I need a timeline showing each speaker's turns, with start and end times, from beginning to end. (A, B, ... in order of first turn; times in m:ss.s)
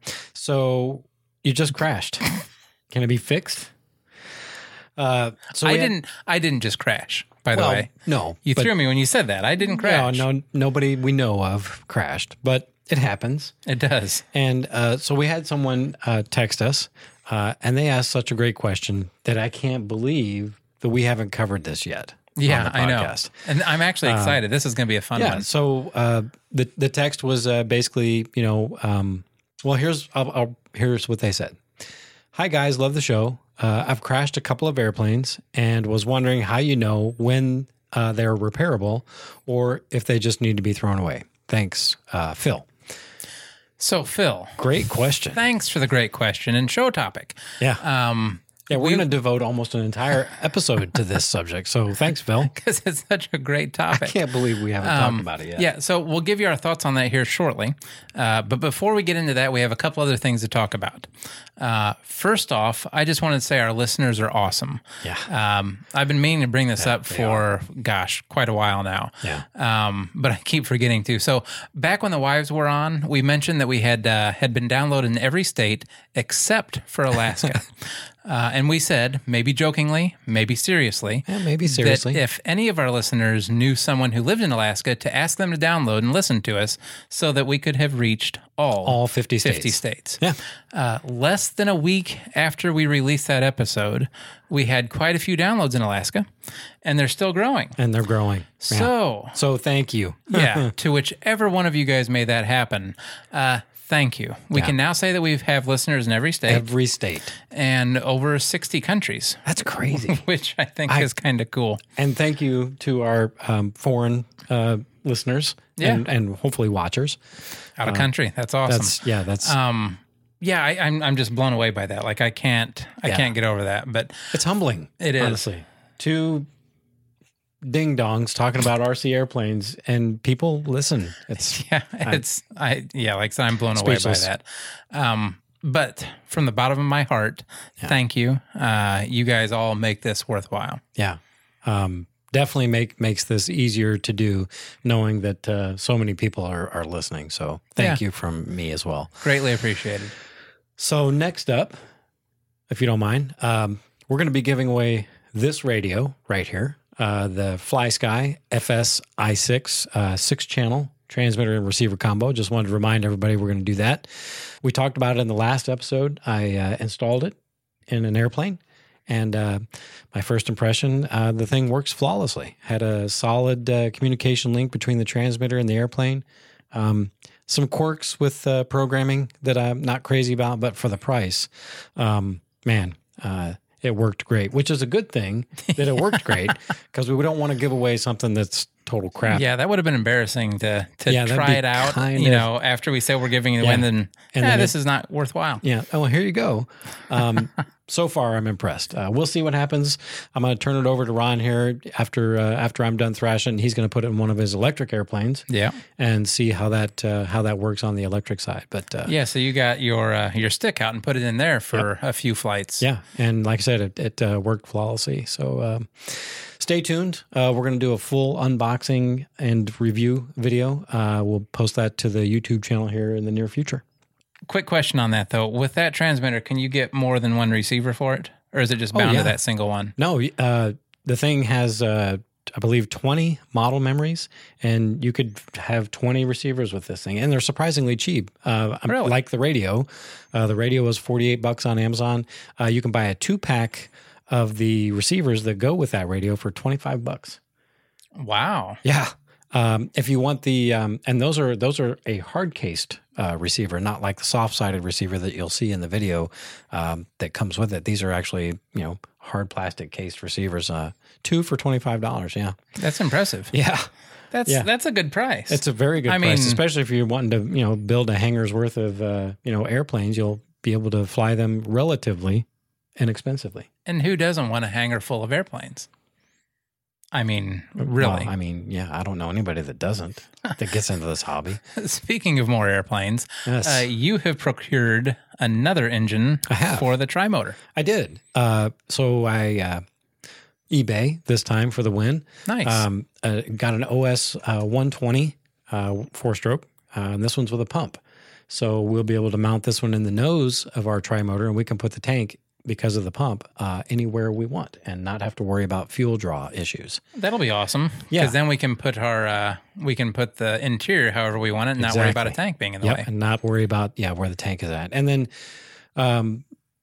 0:00.3-0:02.3 A
0:02.9-0:03.7 A
0:05.0-0:05.9 A
0:05.6-0:07.9 B
0:07.5-0:08.7 A
0:08.5-0:10.3 B
0:09.6-0:13.6 A
0:13.7-0:14.2 B
0:14.3-0:23.3 A
0:22.4-0:25.5 B
0:24.0-0:24.4 A
0:25.2-0:31.6 A
0:32.3-0:42.7 A
0:43.8-0:44.6 B
0:44.6-0:45.4 A
0:45.3-0:49.0 B
0:48.7-0:52.5 A
0:52.4-0:54.2 B
0:53.9-0:55.7 A
0:54.8-1:01.1 B
1:01.6-1:17.7 B
1:06.8-1:07.4 A
1:18.2-1:30.2 B
1:21.3-1:22.2 A
1:28.8-1:30.4 A
1:30.7-1:36.3 B
1:36.8-1:37.8 B
1:37.8-1:40.7 A
1:38.6-1:39.4 B
1:40.3-1:46.7 B
1:46.5-1:47.4 A
1:47.5-1:51.8 B
1:49.4-1:50.2 A
1:52.0-1:57.2 A
1:55.8-1:56.0 B
1:57.8-2:04.3 B
1:58.7-1:59.6 A
2:04.3-2:06.5 A
2:05.0-2:05.4 B
2:07.6-2:12.2 A
2:11.4-2:20.8 B
2:13.8-2:14.3 A
2:21.0-2:29.2 A
2:29.2-2:30.2 B
2:30.8-2:31.8 A
2:32.7-2:47.4 A
2:47.9-3:09.4 A
3:05.7-3:06.5 B
3:09.3-3:15.6 B
3:11.1-3:12.5 A
3:13.6-3:14.7 A
3:15.6-3:25.4 A
3:25.5-3:25.8 B
3:26.0-3:29.1 A
3:29.1-3:32.8 B
3:32.8-3:43.8 A
3:44.5-3:49.9 B
3:48.9-3:49.4 A
3:50.0-4:07.4 A
3:58.9-3:59.1 B
4:08.2-4:08.8 B
4:08.8-4:22.6 A
4:22.8-4:23.5 B
4:23.5-4:23.9 A
4:24.3-4:26.6 B
4:25.5-4:32.5 A
4:33.0-4:33.7 A
4:33.9-4:35.9 B
4:37.1-4:38.3 B
4:37.8-4:41.6 A
4:41.7-4:47.6 B
4:43.4-4:43.9 A
4:46.5-4:46.9 A
4:47.7-4:49.8 A
4:50.7-5:07.0 A
4:52.5-4:52.8 B
5:07.2-5:13.1 B
5:11.8-5:15.3 A
5:16.0-5:16.4 A